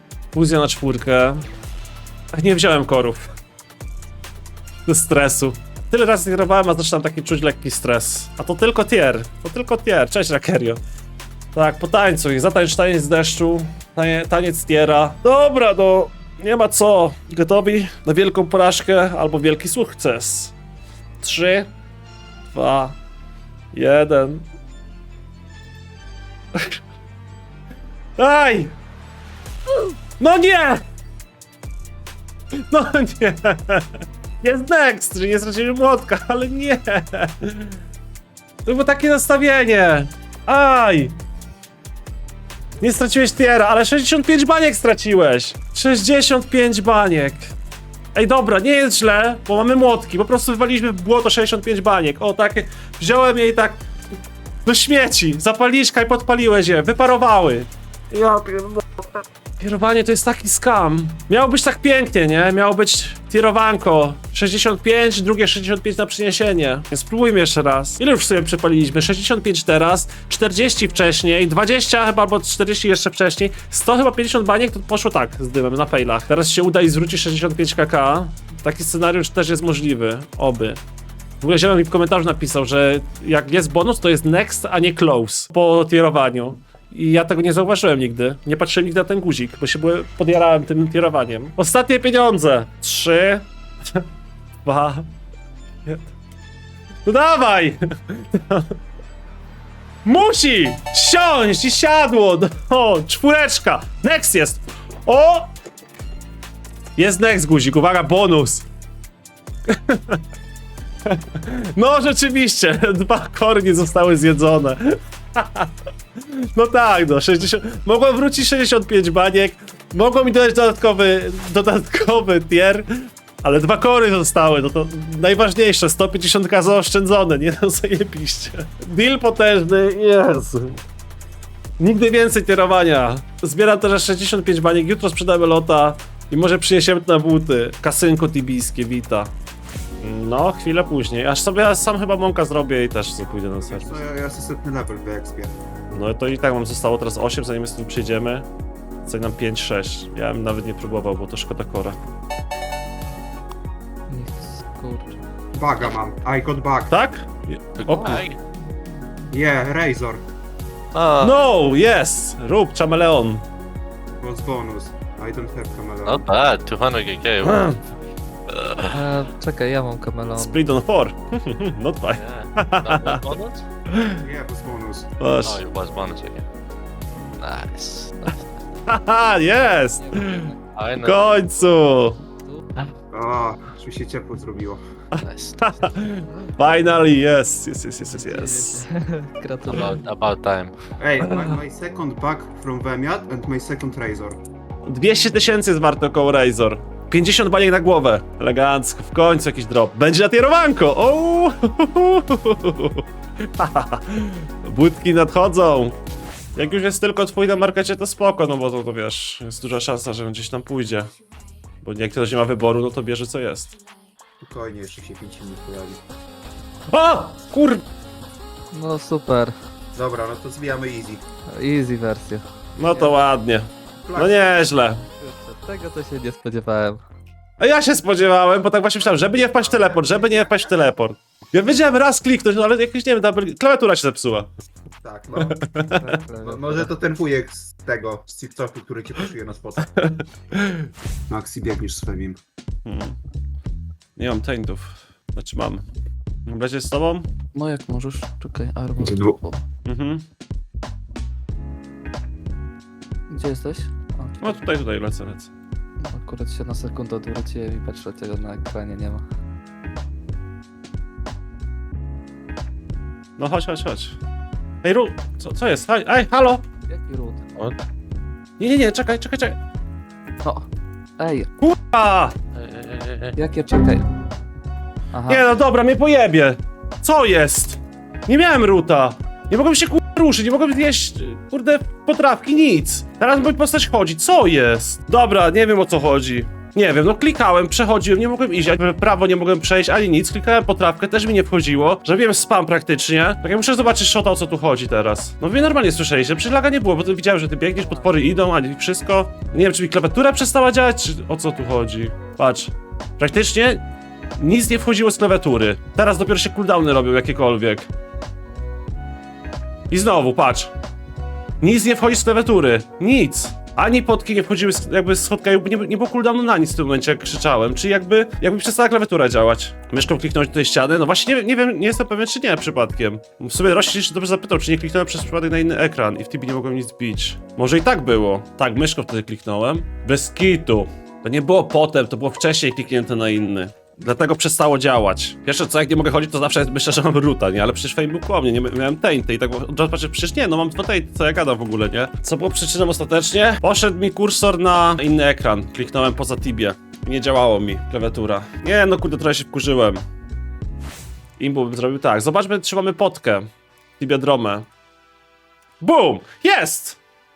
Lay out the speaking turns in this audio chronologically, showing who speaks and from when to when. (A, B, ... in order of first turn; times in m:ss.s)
0:00.3-0:01.4 A
0:02.3-0:03.3 A
0:04.9-0:10.8 A
0:11.5-0:20.5 A
0:21.2-0:21.7 A
0:22.5-0:23.0 A
0:23.7-0:24.4 A
0:28.2-0:28.7 A
0:30.2-0:30.8 A
0:32.7-0:37.7 A
0:38.6-0:41.2 A
0:42.8-0:47.5 A
0:48.1-0:53.8 A
0:54.6-1:20.8 A
1:21.4-1:34.0 A
1:34.6-1:35.1 A
1:37.0-1:38.7 A
1:40.0-1:45.5 A
1:47.0-1:48.7 A
1:49.7-1:50.2 A
1:51.1-2:02.8 A
2:03.4-2:10.8 A
2:11.8-2:19.3 A
2:20.0-2:24.0 A
2:23.5-2:25.6 B
2:25.9-2:28.5 A
2:29.0-2:32.0 A
2:34.1-2:35.2 C
2:35.5-2:37.0 B
2:36.9-2:38.3 A
2:37.8-2:38.4 D
2:37.9-2:38.2 C
2:39.3-2:40.2 B
2:40.9-2:41.4 D
2:41.2-2:43.4 A
2:44.2-2:46.3 B
2:46.0-2:47.7 D
2:47.4-2:47.8 A
2:48.5-2:48.9 D
2:48.9-2:50.6 C
2:50.4-2:53.3 A
2:52.1-2:53.6 D
2:53.9-2:54.2 A
2:54.2-2:55.1 B
2:55.2-2:55.6 A
2:55.4-2:56.4 D
2:57.4-2:58.3 D
2:58.9-3:02.2 A
2:59.6-3:00.6 C
3:00.7-3:01.2 D
3:03.1-3:04.8 B
3:05.1-3:08.8 A
3:05.2-3:05.8 D
3:08.1-3:10.0 C
3:09.7-3:10.7 D
3:11.0-3:14.4 B
3:11.2-3:11.6 A
3:14.8-3:23.0 A
3:23.6-3:26.0 A
3:26.6-3:31.1 A
3:31.8-3:33.8 A
3:34.4-3:36.0 B
3:36.9-3:37.8 A
3:38.7-3:39.5 C
3:39.9-3:41.2 B
3:41.5-3:43.2 C
3:42.8-3:45.0 A
3:44.0-3:44.5 B
3:45.2-3:47.0 C
3:47.6-3:54.5 A
3:49.0-3:50.8 B
3:55.0-3:55.6 B
3:55.4-3:56.2 A
3:55.8-3:56.9 C
3:56.4-3:59.9 B
4:00.0-4:00.9 A
4:01.3-4:02.4 B
4:02.8-4:03.2 A
4:04.2-4:05.8 A
4:06.4-4:07.3 A
4:07.5-4:09.6 C
4:09.0-4:09.4 B
4:09.8-4:10.2 A
4:13.3-4:14.6 C
4:14.4-4:15.5 A
4:16.0-4:19.2 C
4:23.4-4:24.2 A
4:24.8-4:26.6 A
4:26.9-4:27.4 C
4:27.6-4:27.8 D
4:28.6-4:29.6 A
4:31.2-4:31.5 C
4:31.6-4:32.3 A
4:32.6-4:33.4 D
4:33.4-4:34.0 C
4:35.1-4:35.5 C
4:35.3-5:03.8 A
4:57.8-4:58.1 C
5:04.4-5:07.9 A
5:09.9-5:10.7 A
5:11.6-5:50.0 A
5:51.4-5:53.5 A
5:54.0-5:54.6 A
5:55.8-5:57.0 A